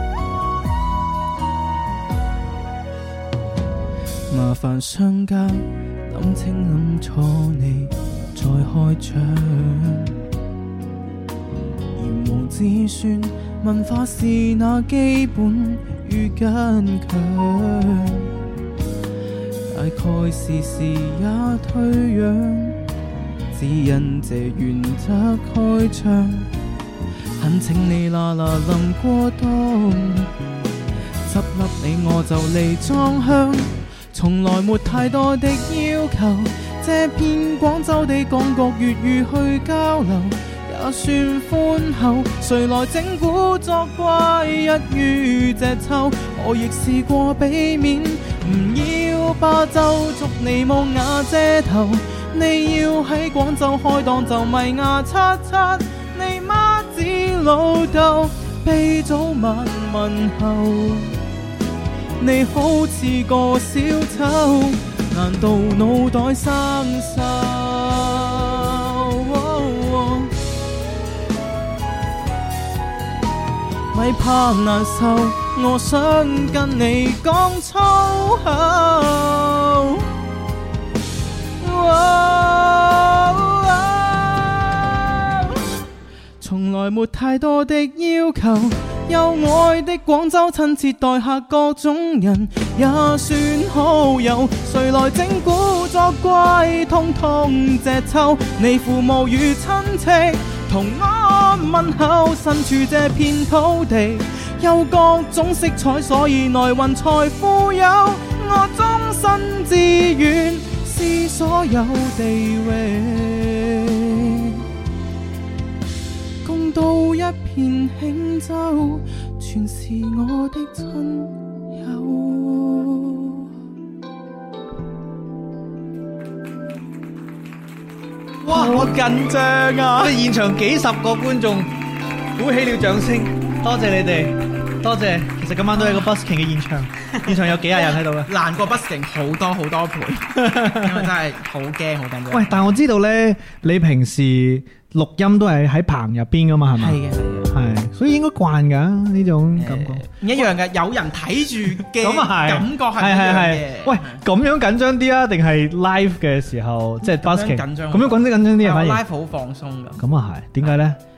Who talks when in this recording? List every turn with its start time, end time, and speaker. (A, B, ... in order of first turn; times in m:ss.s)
0:04.3-0:10.2 A
0:12.0-0:18.3 A
0:19.7-0:22.8 A
0:23.5-0:26.5 A
0:27.4-0:30.3 A
0:31.2-1:01.2 A
1:02.2-1:10.3 A
1:13.9-1:20.1 A
1:21.6-1:25.6 A
1:26.4-1:54.6 A
1:56.4-2:03.5 A
2:08.4-2:09.0 B
2:08.5-2:10.2 A
2:10.0-2:11.7 B
2:12.4-2:18.3 B
2:15.8-2:16.0 A
2:17.2-2:22.8 A
2:20.4-2:21.1 B
2:22.3-2:30.4 B
2:26.8-2:27.5 A
2:29.6-2:34.2 A
2:31.9-2:39.0 B
2:37.0-2:40.0 A
2:40.0-2:41.0 B